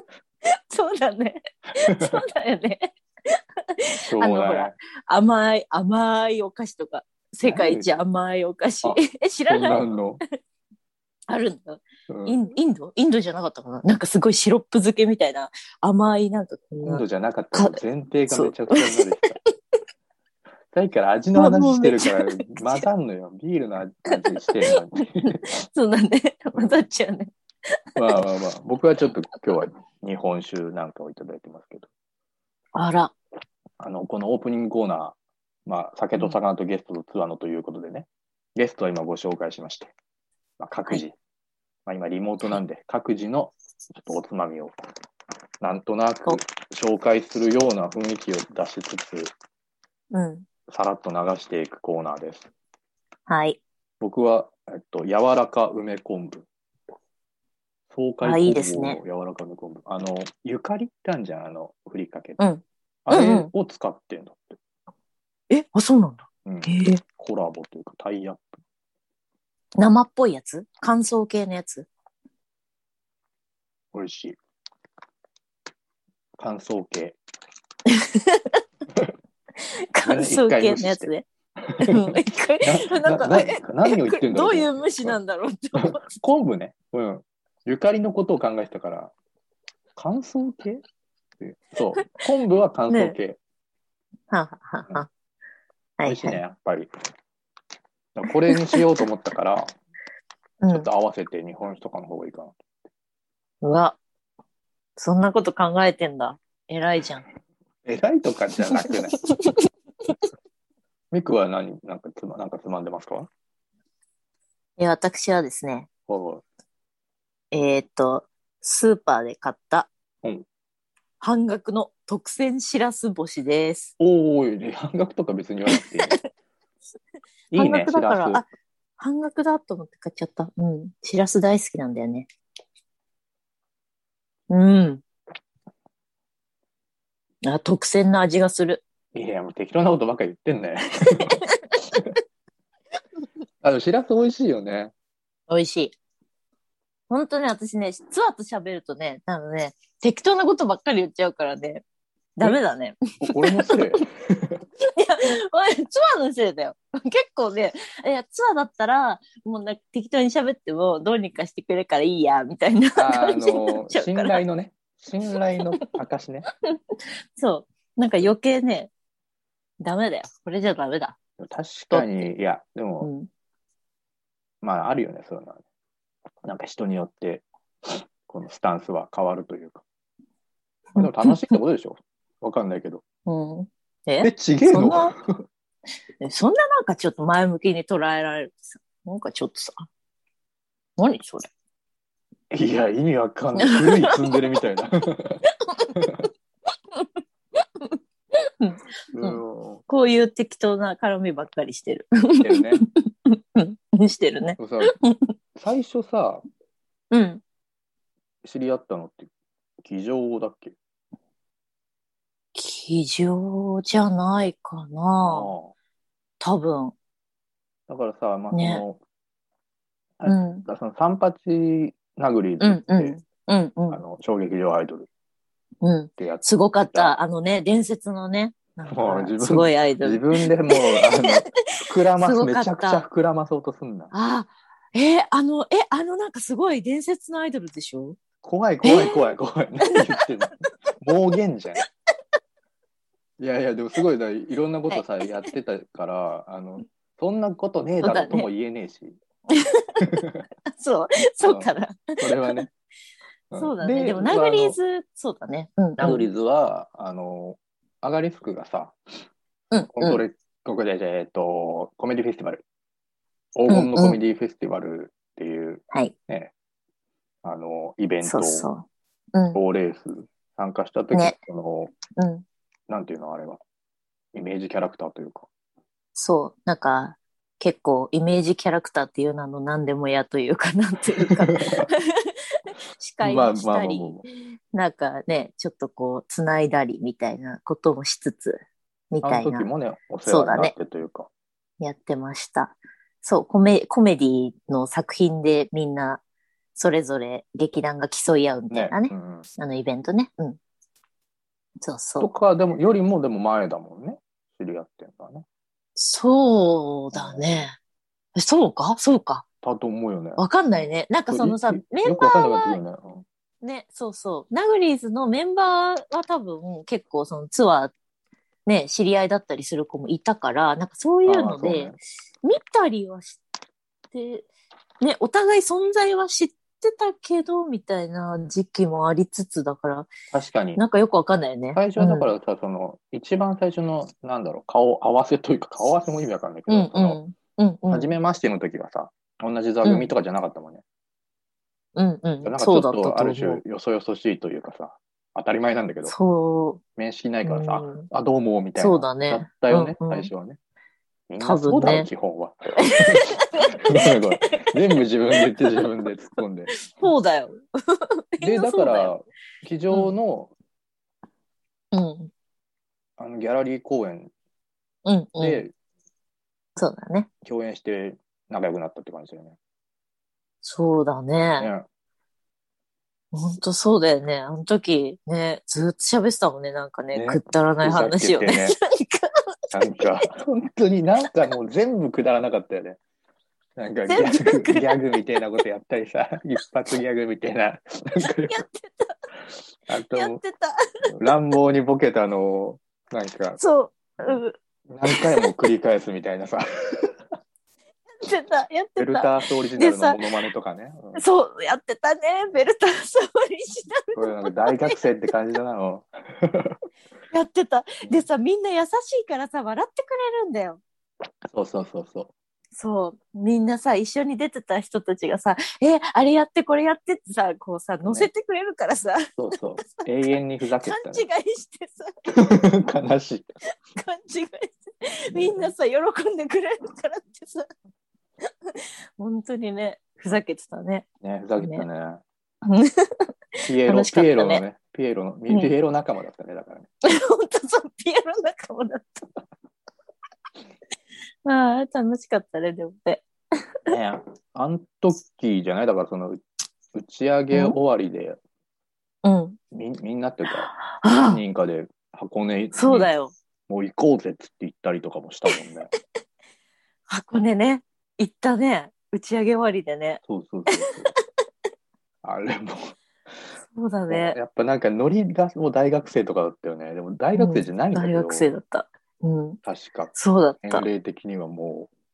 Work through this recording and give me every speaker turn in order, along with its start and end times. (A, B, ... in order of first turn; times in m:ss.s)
0:00.5-0:09.8 A
0:01.7-0:02.2 B
0:04.0-0:04.7 B
0:07.4-0:07.9 B
0:08.8-0:10.2 B
0:11.3-0:17.0 A
0:12.1-0:12.4 B
0:16.8-0:19.4 B
0:17.5-0:19.0 A
0:20.7-0:25.4 B
0:21.4-0:22.8 A
0:24.1-0:27.3 A
0:28.0-0:31.9 B
0:32.7-0:33.1 A
0:33.8-0:39.9 B
0:40.6-0:41.1 B
0:41.8-0:44.7 B
0:45.6-0:49.3 B
0:50.1-0:50.4 A
0:50.7-0:52.5 B
0:53.3-0:53.6 A
0:54.0-0:56.5 B
0:57.9-1:02.4 B
0:58.2-0:59.0 A
1:02.4-1:03.5 A
1:03.0-1:04.6 B
1:05.5-1:07.0 A
1:06.4-1:08.6 B
1:09.8-1:11.9 A
1:13.9-1:14.4 B
1:16.4-1:17.2 B
1:17.9-1:18.6 A
1:19.6-1:21.2 A
1:20.0-1:21.1 B
1:21.6-1:25.2 B
1:21.8-1:26.1 A
1:25.8-1:29.1 B
1:30.0-1:30.8 B
1:31.4-1:33.4 B
1:32.9-1:33.2 A
1:34.3-1:35.1 A
1:36.0-1:36.4 A
1:36.0-1:36.9 B
1:38.2-1:39.7 B
1:38.5-1:38.8 A
1:40.6-1:40.9 A
1:40.7-1:42.6 B
1:43.6-1:44.0 A
1:45.0-1:47.2 A
1:47.8-1:49.2 B
1:48.8-1:49.6 A
1:51.1-1:53.3 B
1:54.8-1:55.9 A
1:56.1-1:56.4 B
1:57.5-1:59.9 A
2:01.2-2:03.9 A
2:04.0-2:06.2 B
2:05.7-2:06.2 A
2:07.5-2:08.5 A
2:07.5-2:08.4 B
2:09.0-2:12.3 A
2:14.5-2:15.0 A
2:17.4-2:18.8 A
2:19.1-2:21.4 B
2:23.6-2:24.9 B
2:25.5-2:25.9 A
2:27.1-2:31.8 A
2:32.4-2:34.0 A
2:33.2-2:34.6 B
2:34.8-2:44.4 A
2:43.0-2:46.5 B
2:47.4-2:48.9 A
2:49.8-2:51.2 A
2:51.4-2:53.1 B
2:51.9-2:52.3 A
2:53.0-2:53.3 A
2:54.6-2:55.6 B
2:56.4-2:59.8 B
3:00.9-3:01.6 A
3:01.0-3:03.0 B
3:03.3-3:05.1 A
3:04.2-3:05.4 B
3:06.2-3:09.9 A
3:11.0-3:11.5 A
3:12.5-3:15.4 B
3:13.6-3:14.2 A
3:15.6-3:16.0 A
3:15.9-3:16.3 B
3:17.8-3:25.3 A
3:19.1-3:19.8 B
3:22.4-3:22.8 B
3:24.6-3:24.9 B
3:25.5-3:26.4 B
3:27.1-3:27.4 A
3:28.4-3:29.3 B
3:29.8-3:30.8 B
3:32.5-3:35.5 A
3:35.2-3:35.7 B
3:36.4-3:36.9 A
3:37.9-3:39.0 B
3:38.5-3:38.8 A
3:40.2-3:43.2 B
3:40.2-3:40.6 A
3:42.6-3:44.0 A
3:43.9-3:45.1 B
3:45.8-3:51.2 A
3:46.2-3:47.2 B
3:48.9-3:54.1 B
3:52.2-3:53.0 A
3:54.1-3:58.2 A
3:58.4-4:01.8 B
3:58.8-3:59.2 A
4:03.4-4:09.2 B
4:08.0-4:08.5 A
4:09.5-4:10.0 A
4:10.0-4:10.4 B
4:10.7-4:12.7 A
4:11.4-4:12.7 B
4:13.5-4:14.8 B
4:13.6-4:16.2 A
4:16.0-4:19.0 B
4:19.7-4:20.2 A
4:19.9-4:22.6 B
4:23.6-4:26.5 B
4:23.7-4:24.2 A
4:27.4-4:28.7 B
4:28.2-4:29.6 A
4:29.5-4:31.9 B
4:32.2-4:32.4 A
4:32.9-4:33.6 B
4:34.3-4:35.5 B
4:36.1-4:42.3 A
4:41.2-4:41.9 B
4:43.0-4:49.7 A
4:43.2-4:44.2 B
4:49.2-4:51.3 B
4:50.2-4:50.7 A
4:51.8-4:56.2 A
4:56.7-5:00.6 A
4:58.7-4:59.4 B
5:01.8-5:02.3 A
5:02.2-5:05.4 B
5:06.0-5:07.8 A
5:07.1-5:07.4 B
5:08.4-5:09.4 A
5:09.6-5:10.4 B
5:10.4-5:12.8 A
5:11.3-5:13.2 B
5:13.6-5:17.9 A
5:18.6-5:23.4 A
5:21.2-5:22.0 B
5:24.1-5:24.5 A
5:25.0-5:30.1 A
5:30.3-5:30.8 B
5:30.8-5:32.3 A
5:31.7-5:37.2 B
5:36.7-5:38.1 A
5:37.9-5:40.8 B
5:39.8-5:40.1 A
5:42.0-5:43.6 A
5:42.4-5:46.1 B
5:46.0-5:46.8 A
5:47.0-5:50.6 B
5:47.4-5:48.1 A
5:48.8-5:50.3 A
5:51.3-5:53.3 B
5:51.4-5:52.1 A
5:52.8-5:54.8 A
5:53.8-5:57.1 B
5:55.4-5:55.8 A
5:56.7-5:59.1 A
5:58.4-6:00.5 B
6:01.9-6:02.3 A
6:03.2-6:04.3 B
6:05.0-6:05.6 A
6:05.4-6:05.7 B
6:06.8-6:07.3 A
6:07.4-6:09.6 B
6:10.6-6:11.7 A
6:11.6-6:11.8 B
6:13.3-6:19.4 A
6:17.1-6:18.8 B
6:19.7-6:23.0 B
6:23.8-6:28.6 B
6:24.1-6:25.0 A
6:28.5-6:29.1 A
6:29.8-6:30.4 B
6:30.1-6:30.8 A
6:31.1-6:33.6 B
6:33.6-6:34.5 A
6:34.2-6:37.1 B
6:35.1-6:35.4 A
6:38.2-6:40.2 A
6:39.0-6:41.2 B
6:41.1-6:45.0 A
6:44.2-6:46.8 B
6:47.3-6:50.8 A
6:51.5-6:52.3 B
6:52.7-7:00.1 A
6:59.4-7:01.2 B
7:00.8-7:02.4 A
7:02.4-7:03.5 B
7:03.9-7:07.7 A
7:05.3-7:05.7 B
7:08.7-7:11.0 A
7:11.2-7:12.2 B
7:11.6-7:11.8 A
7:12.6-7:13.3 A
7:13.6-7:16.9 B
7:13.8-7:14.6 A
7:17.0-7:19.2 A
7:21.4-7:23.2 A
7:23.8-7:26.4 B
7:26.9-7:28.4 B
7:29.2-7:29.6 A
7:29.7-7:30.7 B
7:30.7-7:31.4 A
7:31.2-7:33.1 B
7:32.7-7:33.3 A
7:33.7-7:35.9 B
7:37.1-7:40.9 A
7:40.3-7:41.1 B
7:42.2-7:42.9 B
7:43.7-7:44.4 A
7:44.1-7:48.5 B
7:47.3-7:49.6 A
7:49.6-7:51.9 B
7:50.1-7:50.9 A